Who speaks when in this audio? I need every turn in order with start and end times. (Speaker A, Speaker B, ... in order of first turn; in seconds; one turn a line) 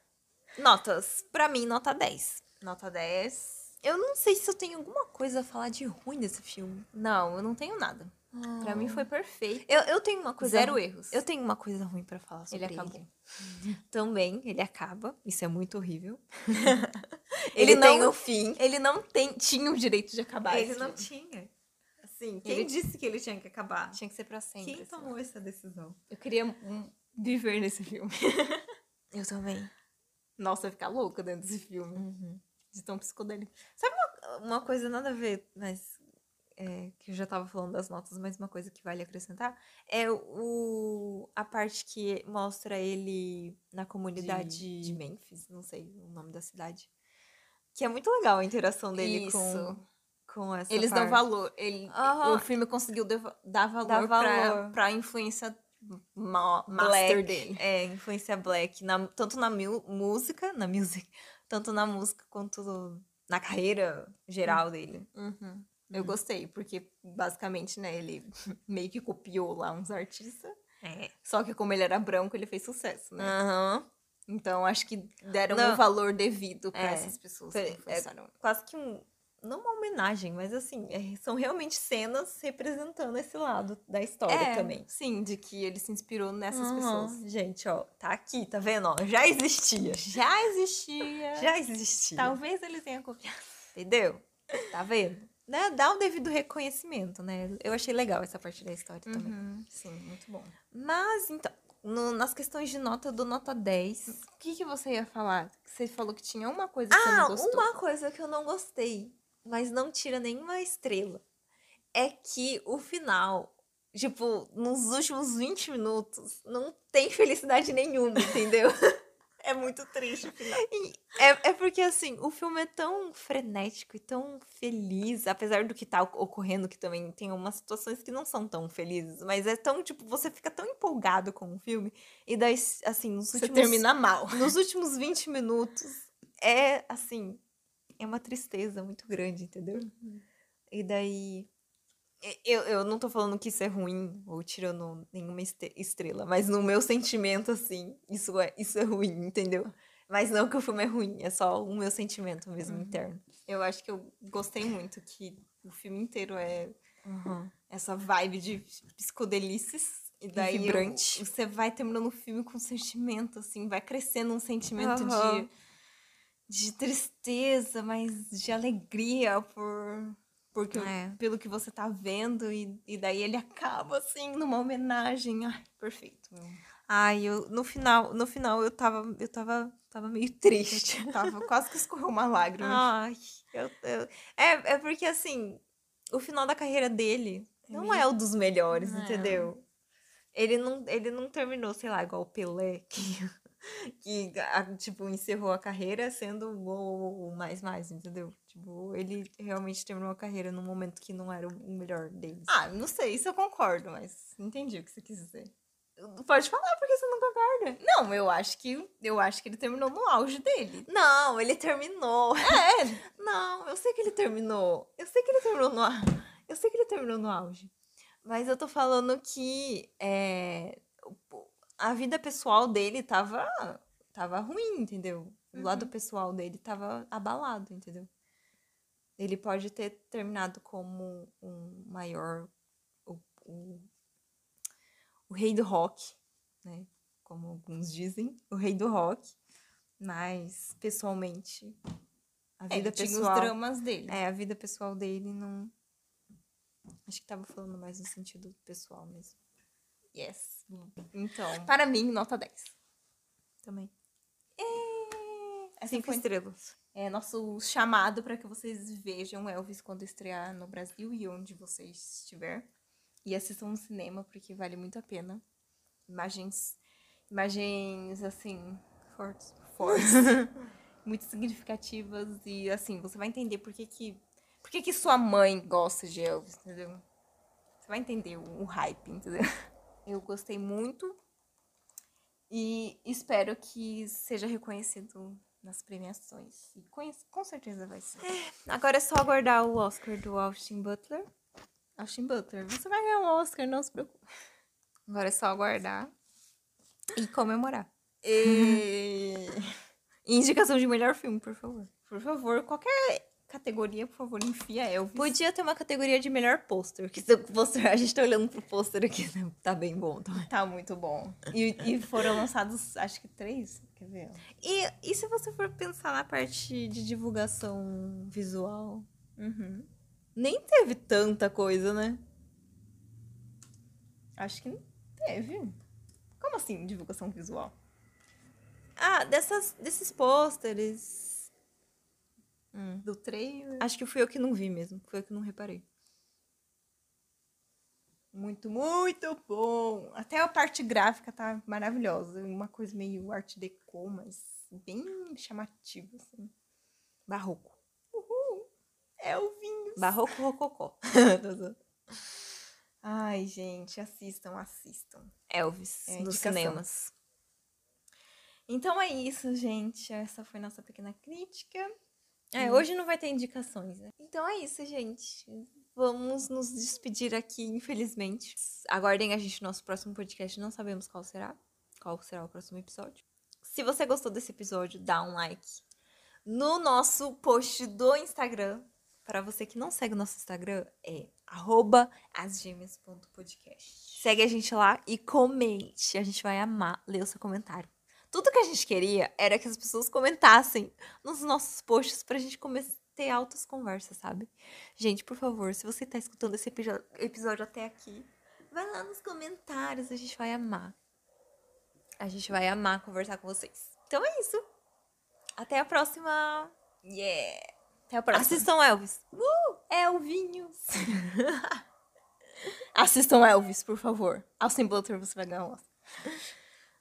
Speaker A: 0.6-2.5
Speaker B: 2.6-3.7
Speaker A: 3.8-6.9
Speaker B: 6.9-9.8
Speaker A: 8.3-9.1
Speaker A: 9.6-18.6
Speaker B: 10.4-11.2
Speaker B: 12.5-13.1
Speaker B: 17.5-21.1
Speaker A: 20.5-21.5
Speaker A: 22.0-24.0
Speaker B: 22.4-22.7
Speaker B: 23.9-25.1
Speaker A: 24.6-26.0
Speaker B: 26.1-29.2
Speaker A: 29.2-29.7
Speaker B: 30.4-32.0
Speaker A: 31.9-32.4
Speaker B: 32.7-33.6
Speaker A: 33.8-36.0
Speaker A: 36.6-46.9
Speaker B: 44.1-45.0
Speaker A: 47.7-51.2
Speaker B: 49.0-49.8
Speaker B: 50.7-57.6
Speaker A: 51.9-52.5
Speaker A: 53.8-54.8
Speaker A: 56.7-65.1
Speaker B: 64.4-70.5
Speaker A: 65.9-66.2
Speaker A: 70.8-71.1
Speaker B: 71.2-73.3
Speaker A: 73.2-73.8
Speaker B: 74.3-78.3
Speaker A: 75.5-75.8
Speaker A: 76.7-84.8
Speaker B: 84.2-87.2
Speaker A: 86.5-90.2
Speaker B: 89.9-91.5
Speaker A: 91.3-92.3
Speaker B: 92.2-93.5
Speaker A: 93.8-99.3
Speaker B: 99.1-100.5
Speaker A: 100.7-104.2
Speaker B: 104.1-107.7
Speaker A: 106.9-111.2
Speaker A: 111.9-119.0
Speaker B: 119.4-120.6
Speaker A: 119.7-137.4
Speaker B: 133.3-134.5
Speaker A: 138.0-139.9
Speaker B: 139.8-140.2
Speaker A: 140.7-141.5
Speaker A: 142.2-153.3
Speaker B: 152.6-156.8
Speaker A: 157.0-157.5
Speaker B: 157.7-165.5
Speaker A: 160.1-161.2
Speaker A: 164.8-165.5
Speaker B: 166.5-176.6
Speaker A: 170.7-171.2
Speaker A: 176.9-181.4
Speaker B: 180.5-182.9
Speaker A: 182.6-189.6
Speaker B: 187.7-188.1
Speaker B: 188.7-189.5
Speaker A: 190.3-202.5
Speaker B: 202.5-205.5
Speaker A: 206.0-207.8
Speaker B: 207.8-210.9
Speaker A: 210.9-217.7
Speaker B: 212.4-213.0
Speaker A: 218.2-228.1
Speaker B: 225.5-225.9
Speaker A: 229.2-232.5
Speaker A: 233.1-233.9
Speaker B: 235.3-235.8
Speaker A: 235.8-239.3
Speaker A: 240.0-241.8
Speaker A: 242.6-243.6
Speaker B: 242.7-244.2
Speaker A: 244.1-245.7
Speaker A: 247.1-249.4
Speaker B: 250.1-252.7
Speaker A: 253.6-253.9
Speaker B: 254.6-256.2
Speaker A: 255.4-256.7
Speaker B: 256.9-262.7
Speaker B: 263.2-265.4
Speaker B: 266.1-266.8
Speaker B: 267.3-270.5
Speaker A: 269.8-270.5
Speaker B: 271.0-277.0
Speaker B: 277.8-279.5
Speaker B: 280.0-281.2
Speaker B: 282.5-288.2
Speaker A: 288.2-291.3
Speaker B: 292.0-294.2
Speaker A: 295.1-296.1
Speaker B: 297.1-299.7
Speaker A: 298.4-298.8
Speaker A: 300.2-301.9
Speaker B: 302.1-305.3
Speaker A: 305.1-310.5
Speaker B: 310.5-314.4
Speaker A: 314.6-319.1
Speaker B: 319.4-322.2
Speaker A: 320.6-321.1
Speaker B: 324.4-325.8
Speaker B: 326.4-327.7
Speaker A: 329.0-331.5
Speaker B: 332.7-333.9
Speaker A: 333.8-335.8
Speaker B: 338.3-346.5
Speaker B: 347.3-348.7
Speaker B: 349.2-350.2
Speaker A: 350.0-351.8
Speaker B: 353.0-355.3
Speaker A: 355.5-357.1
Speaker B: 356.1-356.8
Speaker A: 358.7-361.9
Speaker A: 362.5-375.8
Speaker B: 362.6-362.9
Speaker A: 376.4-400.9
Speaker A: 402.2-404.6
Speaker A: 405.6-406.7
Speaker B: 407.0-408.7
Speaker A: 408.3-411.7
Speaker B: 412.9-415.9